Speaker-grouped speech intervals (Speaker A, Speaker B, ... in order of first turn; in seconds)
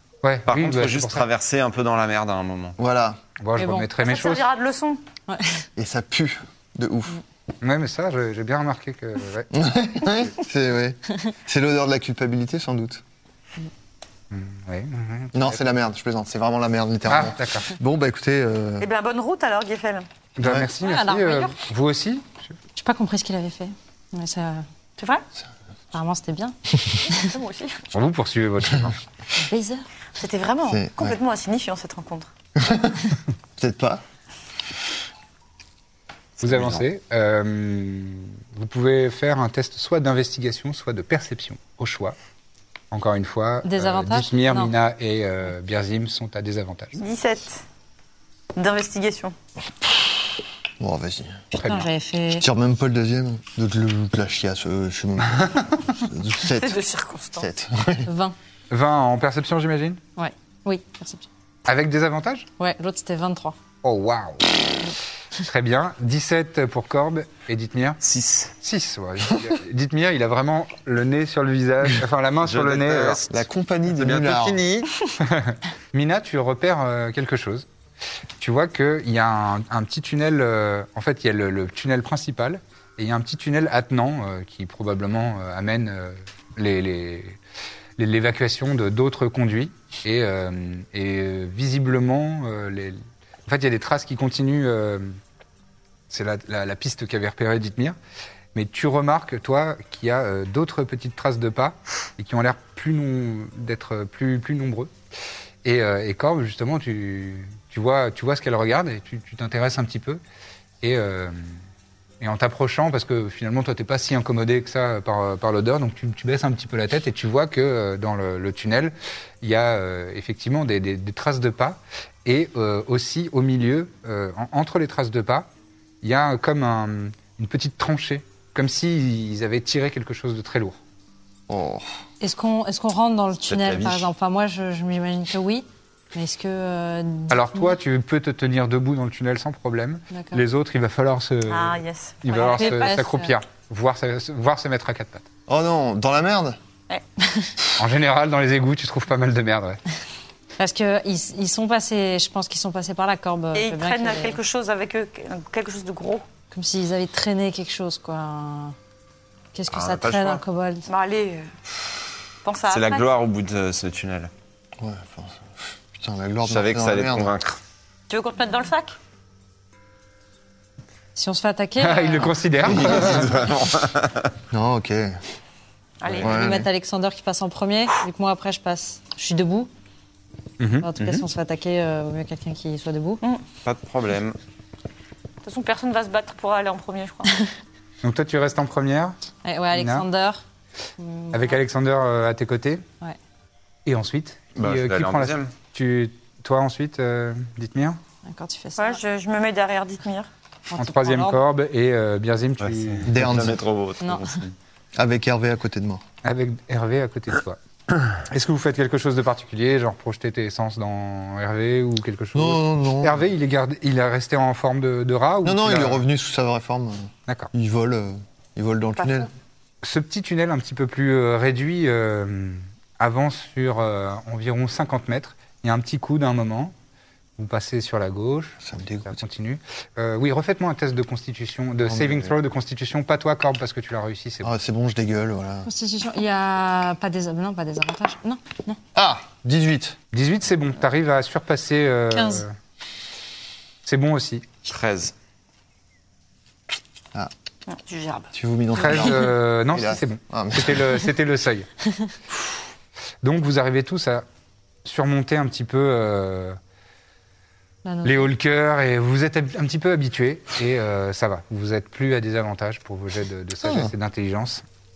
Speaker A: 0.2-1.3, 3.4-4.5, 7.6-9.5, 14.3-15.6, 17.1-17.7, 20.4-22.6, 27.9-29.0, 36.4-42.2, 42.9-47.0, 51.6-51.9, 58.7-60.0, 61.7-62.5, 63.8-64.5, 65.4-68.0, 68.6-73.2, 75.2-77.7, 78.4-87.4, 88.0-95.2, 96.1-98.0, 98.5-104.9, 105.6-110.2, 110.8-111.5, 112.2-125.5, 126.0-130.8, 137.3-145.3, 147.8-149.8, 171.8-173.3, 180.6-180.9, 188.0-189.2, 189.7-190.1, 191.3-192.8, 193.9-198.0, 200.8-203.2, 206.2-207.6, 208.2-216.0, 219.8-226.7, 227.4-234.5, 240.1-242.6, 243.8-244.5, 248.8-251.7, 253.2-254.2, 254.8-256.6, 258.0-264.6
Speaker B: 0.5-2.8, 36.4-36.8, 68.0-68.5, 72.4-74.9, 133.5-134.1, 159.7-160.4, 162.7-164.3, 166.4-167.6, 172.6-174.3, 176.1-176.4, 181.0-181.2, 183.7-184.4, 194.6-195.5, 202.6-204.6, 244.7-245.1
Speaker C: 2.8-3.2, 5.8-7.2, 9.5-13.0, 15.3-18.9, 20.4-20.7, 30.7-31.2, 32.6-33.0, 33.6-34.0, 49.8-50.2, 50.8-51.5, 52.3-56.8, 57.4-58.1, 73.3-74.7, 131.5-131.9, 145.5-146.6, 164.8-167.3, 172.9-173.2, 174.5-175.2, 176.2-176.7, 203.1-203.6, 205.0-206.0, 212.3-213.2, 215.4-219.3, 228.6-229.2, 231.8-232.3, 234.4-235.7, 238.9-240.0, 248.3-250.9, 263.6-263.9
Speaker D: 3.6-3.9, 5.3-5.7, 20.8-21.6, 22.8-24.7, 25.9-26.6, 27.1-27.4, 29.4-29.9, 43.6-44.7, 51.6-52.5, 58.0-58.4, 60.2-61.3, 62.6-63.6, 132.2-137.8, 140.1-140.4, 142.4-143.4, 147.3-147.5, 150.6-154.4, 156.5-158.8, 159.5-160.9, 171.2-172.5, 176.2-179.7, 180.8-183.2, 189.4-190.4, 191.0-191.6, 198.2-199.0, 200.7-201.4, 204.0-204.4, 235.7-238.8, 242.1-242.4, 257.9-258.3
Speaker E: 4.0-5.0, 18.8-20.1, 25.0-25.2, 27.1-27.9, 30.2-32.3, 47.0-47.6, 48.5-49.4, 56.5-57.5, 141.5-143.0, 153.6-156.2, 160.9-161.5, 162.4-163.1, 168.1-169.0, 176.0-176.4, 185.4-187.3, 198.8-200.3, 219.0-219.3, 247.7-248.3